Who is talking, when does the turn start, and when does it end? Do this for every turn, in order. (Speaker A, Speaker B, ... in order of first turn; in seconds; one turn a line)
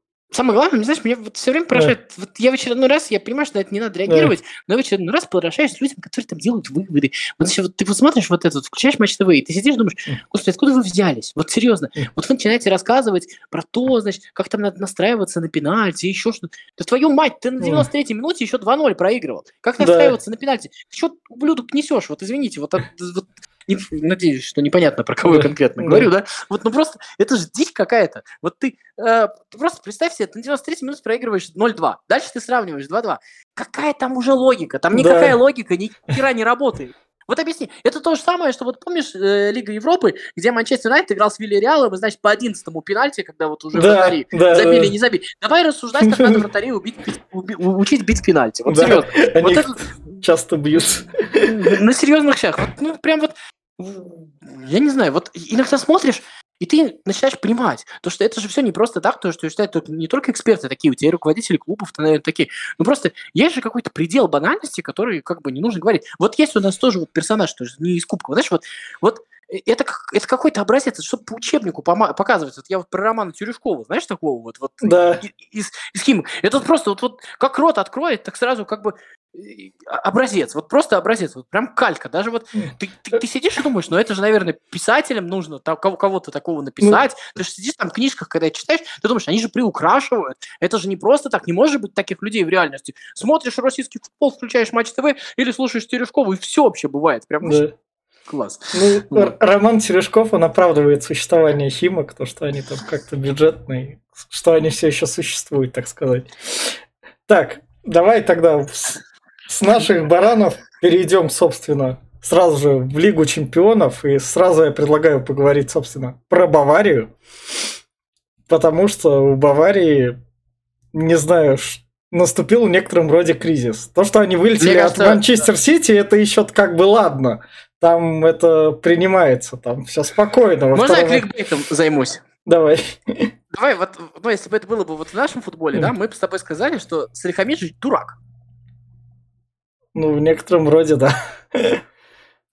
Speaker A: 0.3-49.8
Speaker B: 4.1-4.3
Speaker B: 17.6-17.9
Speaker B: 19.8-20.2
Speaker B: 25.3-26.1
Speaker B: 34.9-35.4
Speaker B: 43.7-44.9
Speaker B: 46.0-46.4
Speaker B: 48.7-51.5
Speaker A: 51.4-97.7
Speaker B: 74.8-75.2
Speaker B: 97.4-97.7
Speaker A: 98.3-99.3
Speaker B: 98.7-117.1
Speaker B: 118.5-120.2
Speaker B: 120.9-131.3
Speaker A: 124.6-125.2
Speaker A: 130.7-132.2
Speaker B: 132.5-133.3
Speaker A: 133.5-138.2
Speaker B: 139.9-141.8